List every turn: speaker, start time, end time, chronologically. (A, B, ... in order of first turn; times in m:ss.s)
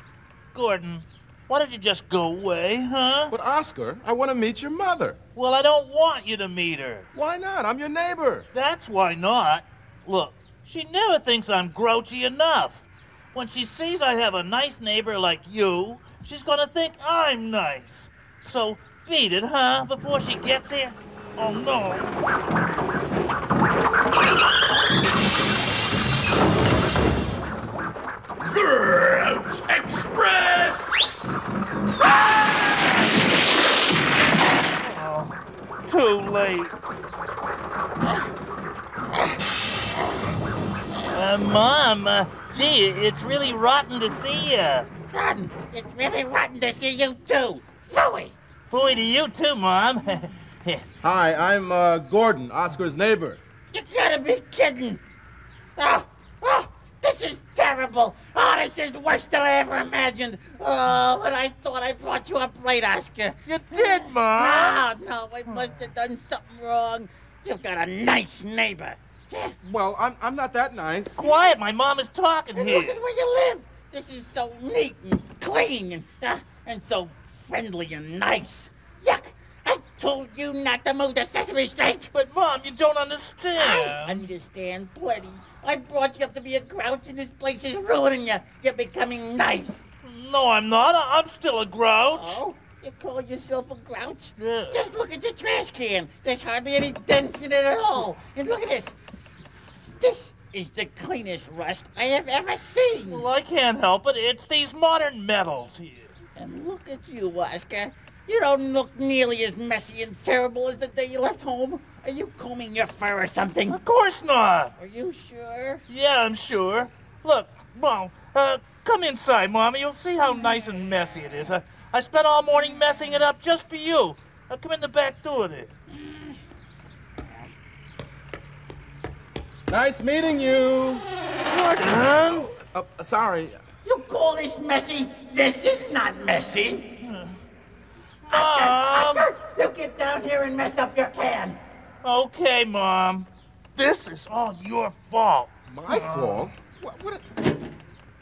0:00.5-0:03.3 A
0:03.3-0:05.2 B
0:05.3-0:07.1 A
0:07.1-0:08.5 B
0:08.5-0:22.2 A
0:28.5-0:30.8 A
0:32.4-0:32.8 A
0:34.8-0:36.7 A
0:41.1-0:44.9 A
0:45.0-0:48.3 C
0:48.7-0:50.8 A
0:51.0-0:53.4 B
0:53.7-0:55.0 C
0:55.8-1:09.5 C
1:03.4-1:04.8 A
1:05.5-1:05.8 A
1:09.6-1:11.2 B
1:11.2-1:13.0 A
1:11.2-1:11.6 C
1:12.6-1:22.1 C
1:22.1-1:24.2 A
1:23.6-1:29.9 C
1:30.0-1:32.4 A
1:32.1-1:38.9 C
1:34.4-1:34.8 A
1:40.0-1:43.3 C
1:43.1-1:46.1 A
1:46.4-1:53.8 C
1:53.7-1:54.7 A
1:54.8-1:55.8 C
1:55.9-2:05.7 A
2:06.0-2:06.3 C
2:09.7-2:11.1 B
2:11.4-2:12.5 A
2:12.1-2:13.6 B
2:13.8-2:16.8 C
2:17.0-2:17.4 A
2:18.2-2:19.3 A
2:18.3-2:21.6 C
2:22.0-2:26.5 A
2:25.7-2:27.2 B